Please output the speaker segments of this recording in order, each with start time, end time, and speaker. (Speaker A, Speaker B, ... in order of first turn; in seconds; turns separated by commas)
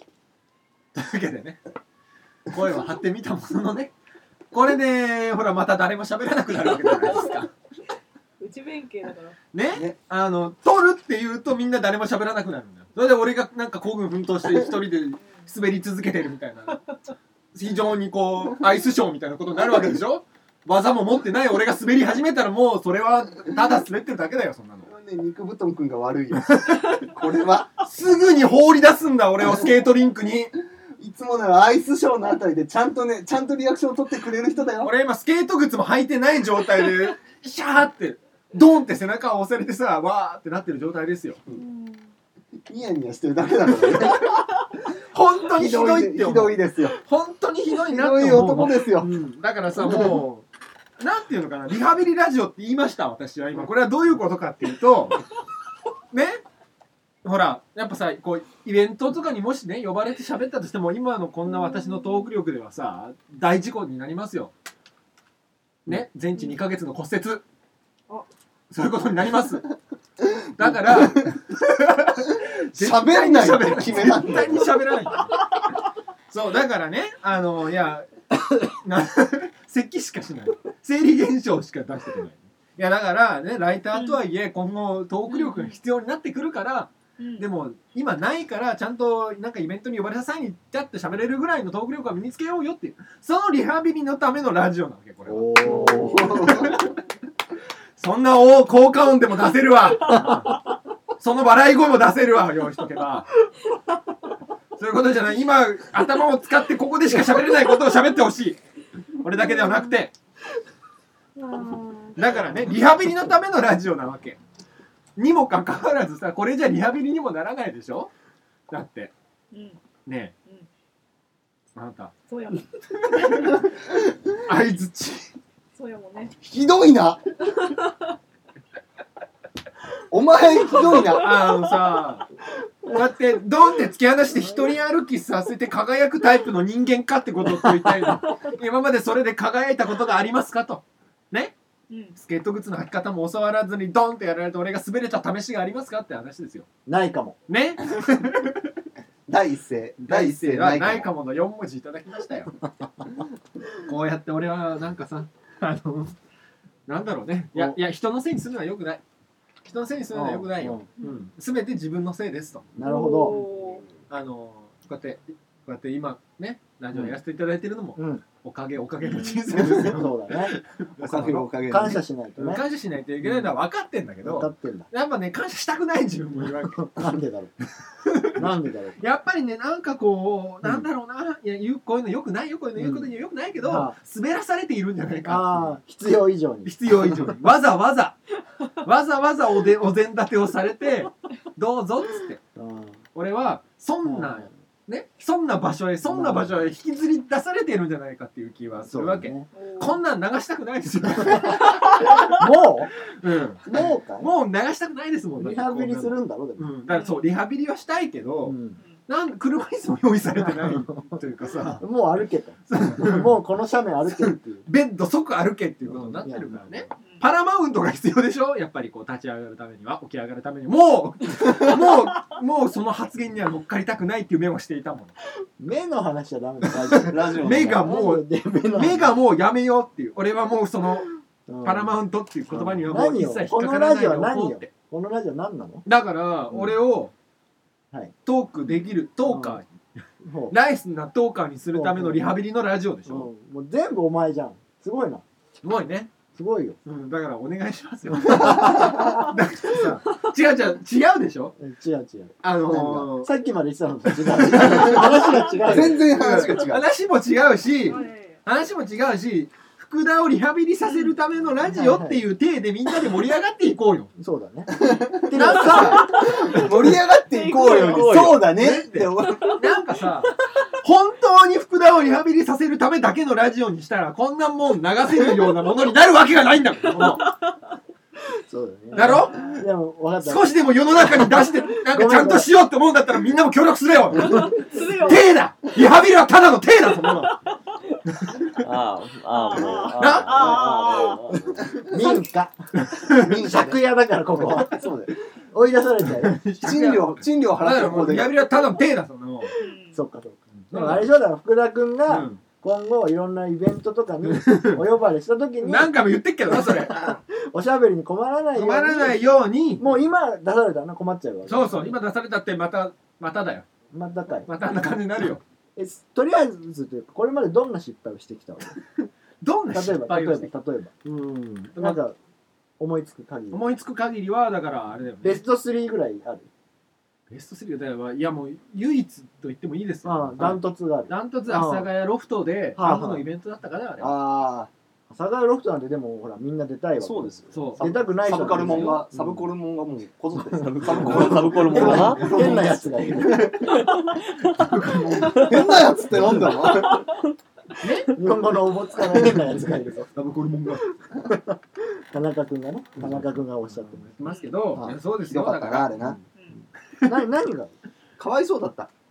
Speaker A: 0.9-1.6, Speaker A: 2.5-3.9, Speaker A: 4.5-7.5, Speaker B: 6.9-7.4, Speaker B: 8.4-9.4, Speaker A: 9.5-16.8, Speaker A: 17.5-24.9, Speaker C: 24.9-27.8, Speaker A: 26.4-27.0, Speaker A: 27.8-30.5, Speaker C: 31.0-34.9, Speaker A: 34.8-41.4, Speaker B: 41.5-42.1, Speaker C: 42.6-44.4, Speaker A: 43.9-44.4, Speaker A: 45.0-50.5, Speaker C: 45.5-47.0, Speaker C: 47.7-49.1, Speaker C: 49.8-50.2, Speaker A: 51.0-55.2, Speaker A: 56.1-56.4, Speaker A: 57.2-64.5, Speaker A: 65.8-67.4, Speaker A: 68.7-69.7, Speaker A: 70.4-75.6, Speaker C: 70.6-71.3, Speaker C: 72.4-74.7, Speaker A: 76.3-97.0, Speaker B: 83.9-84.2, Speaker B: 85.3-85.8, Speaker B: 87.2-87.4, Speaker D: 95.3-96.7, Speaker C: 95.6-96.8, Speaker A: 98.0-100.6, Speaker D: 100.1-100.7, Speaker A: 101.2-103.3, Speaker A: 104.8-108.6, Speaker A: 109.2-110.1, Speaker B: 109.6-109.9, Speaker B: 111.3-112.3, Speaker A: 112.2-114.4, Speaker A: 115.2-118.1, Speaker A: 118.7-119.1, Speaker B: 119.5-119.8, Speaker A: 120.0-120.3, Speaker A: 121.7-122.1, Speaker B: 122.3-123.5, Speaker A: 123.1-123.7, Speaker A: 124.4-125.4, Speaker B: 125.7-126.3, Speaker C: 126.4-127.3, Speaker B: 127.5-128.0, Speaker C: 130.1-131.5, Speaker A: 131.0-132.3, Speaker D: 132.6-133.1, Speaker A: 132.9-141.5, Speaker D: 134.3-134.8, Speaker B: 141.9-142.2, Speaker A: 142.2-146.7, Speaker D: 146.8-147.4, Speaker A: 147.5-148.7, Speaker C: 149.3-151.1, Speaker A: 150.0-152.6, Speaker A: 153.8-156.2, Speaker A: 156.9-159.0, Speaker D: 157.5-157.8, Speaker A: 159.6-162.7, Speaker D: 160.1-160.9, Speaker D: 162.7-163.4, Speaker B: 162.8-163.8, Speaker A: 164.1-171.4, Speaker D: 167.9-168.2, Speaker C: 169.5-170.0, Speaker D: 169.8-170.6, Speaker C: 171.0-172.0, Speaker D: 171.2-172.7, Speaker A: 172.4-176.9, Speaker D: 173.2-173.6, Speaker D: 174.2-174.9, Speaker D: 176.4-177.6, Speaker A: 178.0-178.4, Speaker D: 178.3-179.0, Speaker A: 179.0-185.8, Speaker D: 182.7-184.0, Speaker D: 185.2-187.3, Speaker A: 186.6-188.2, Speaker A: 188.8-192.4, Speaker D: 192.6-193.0, Speaker A: 193.1-202.3, Speaker D: 194.0-194.5, Speaker D: 196.0-196.7, Speaker D: 198.8-199.5, Speaker B: 199.5-200.0, Speaker D: 202.3-202.9, Speaker A: 203.2-208.5, Speaker D: 203.6-204.3, Speaker D: 205.4-206.7, Speaker B: 206.9-207.2, Speaker D: 208.4-208.8, Speaker A: 209.1-211.8, Speaker D: 210.3-214.7, Speaker A: 212.7-213.3, Speaker A: 214.2-225.1, Speaker D: 215.8-216.9, Speaker D: 225.6-229.2, Speaker C: 227.1-227.8, Speaker A: 227.4-231.1, Speaker D: 231.5-235.8, Speaker A: 231.6-234.7, Speaker A: 235.8-237.1, Speaker D: 236.5-236.8, Speaker A: 238.2-239.8, Speaker D: 239.2-239.6, Speaker D: 240.2-240.6, Speaker A: 240.5-243.3, Speaker D: 241.7-242.4, Speaker D: 243.1-245.2, Speaker A: 245.6-246.1, Speaker D: 246.3-246.8, Speaker A: 246.8-251.5, Speaker C: 248.3-249.1, Speaker D: 251.6-256.1, Speaker A: 252.4-253.3, Speaker A: 254.1-255.3, Speaker C: 254.6-255.1, Speaker C: 255.6-256.8, Speaker A: 255.9-264.1, Speaker B: 257.8-258.4, Speaker B: 260.8-261.1, Speaker D: 261.6-262.2, Speaker D: 264.2-266.2, Speaker C: 264.8-269.6, Speaker A: 265.3-266.6, Speaker B: 266.2-266.6, Speaker B: 267.3-268.2, Speaker E: 267.4-268.6, Speaker A: 268.6-277.3, Speaker D: 278.3-282.5, Speaker A: 278.9-279.6, Speaker B: 278.9-279.6, Speaker A: 280.2-287.4, Speaker B: 284.2-285.3, Speaker B: 287.2-287.5, Speaker A: 288.1-288.5, Speaker E: 288.5-291.8, Speaker B: 289.3-291.2, Speaker A: 290.0-290.6, Speaker C: 291.7-292.2, Speaker D: 291.9-292.5, Speaker A: 292.8-293.3, Speaker C: 293.1-293.8, Speaker D: 293.3-296.4, Speaker C: 294.4-295.1, Speaker A: 296.1-299.6, Speaker C: 296.6-298.3, Speaker B: 299.6-300.0, Speaker D: 299.9-305.9, Speaker A: 300.5-301.1, Speaker A: 302.1-302.4, Speaker A: 304.2-304.8, Speaker A: 305.6-307.1, Speaker D: 306.5-309.2, Speaker A: 308.5-309.9, Speaker D: 309.8-312.0, Speaker A: 311.4-313.6, Speaker D: 313.9-314.5, Speaker A: 314.4-315.4, Speaker D: 315.8-318.7, Speaker A: 319.4-322.0, Speaker D: 319.7-320.9, Speaker D: 321.8-322.1, Speaker D: 322.8-323.6, Speaker A: 323.5-325.4, Speaker D: 325.2-326.5, Speaker A: 327.3-334.2, Speaker D: 330.0-331.9, Speaker D: 332.8-333.2, Speaker C: 334.0-334.7, Speaker D: 335.1-339.0, Speaker C: 337.0-343.6, Speaker A: 337.5-337.9, Speaker A: 338.6-339.4, Speaker E: 340.4-342.9, Speaker D: 341.0-343.8, Speaker A: 341.8-342.5, Speaker E: 343.6-344.7, Speaker A: 344.4-345.7, Speaker C: 345.1-347.1, Speaker E: 345.2-345.5, Speaker A: 346.2-346.5, Speaker E: 347.0-347.3, Speaker A: 347.8-348.1, Speaker D: 348.1-350.1, Speaker A: 350.1-351.0, Speaker D: 351.3-354.1, Speaker A: 353.0-355.9, Speaker B: 354.2-354.5, Speaker D: 354.7-355.0, Speaker C: 355.3-356.2, Speaker B: 356.4-356.6, Speaker D: 357.0-357.7, Speaker C: 358.2-358.9